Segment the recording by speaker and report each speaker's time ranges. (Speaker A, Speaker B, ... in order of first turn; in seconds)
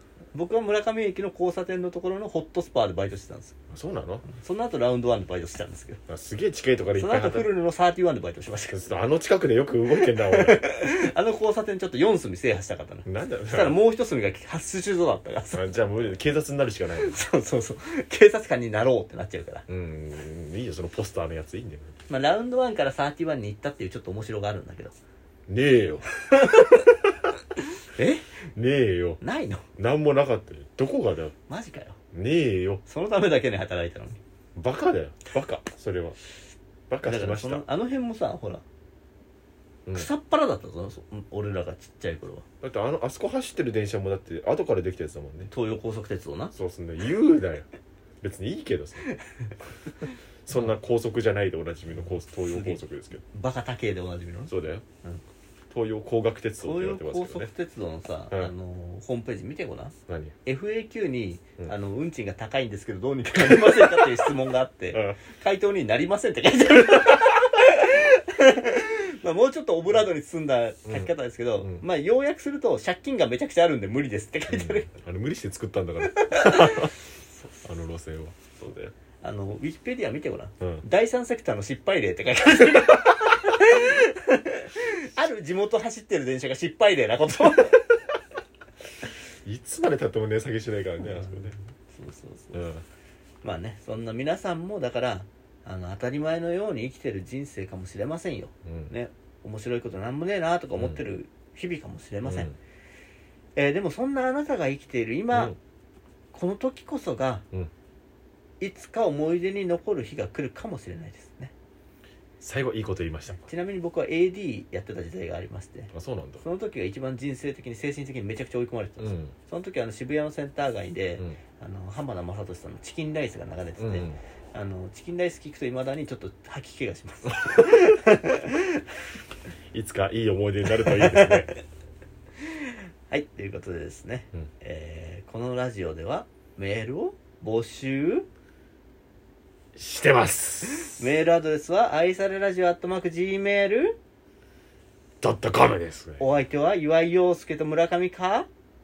Speaker A: 0.3-3.5, 4.3-6.0, 7.0-8.8, 10.0-15.7, 16.9-19.6, 22.1-24.9, 26.3-26.9, 27.9-28.2, 29.2-29.6, 31.5-32.0, 32.9-34.2, 37.0-38.6, 39.9-42.4, 45.5-46.5, 52.4-52.8, 53.3-55.2, 56.6-74.9, 76.2-76.9, 79.2-87.9, 91.1-92.7, 93.4-102.5, 103.5-105.5, 106.3-107.4, 108.6-111.5, 113.3-128.8, 130.8-131.6, 132.4-138.2, 140.9-144.0, 146.2-148.5
Speaker B: 3.7-4.3, 6.1-7.5, 8.7-10.6, 13.1-13.8, 15.5-17.2, 19.7-21.9, 25.5-26.1, 28.6-29.2, 29.8-31.3, 32.1-32.8, 34.5-36.1, 36.9-37.6, 42.6-45.5, 46.5-47.6, 48.2-49.1, 50.5-53.2, 54.5-54.8, 55.7-57.5, 60.1-60.3, 63.4-64.3, 64.9-65.2, 70.9-71.8, 74.5-76.9, 77.6-78.9, 89.4-91.5, 92.5-92.8, 98.7-98.9, 100.7-101.0, 102.2-102.5, 105.3-105.6, 112.4-113.4, 115.9-116.4, 119.0-119.3, 123.8-124.2, 129.7-131.5, 139.8-141.0, 145.2-146.2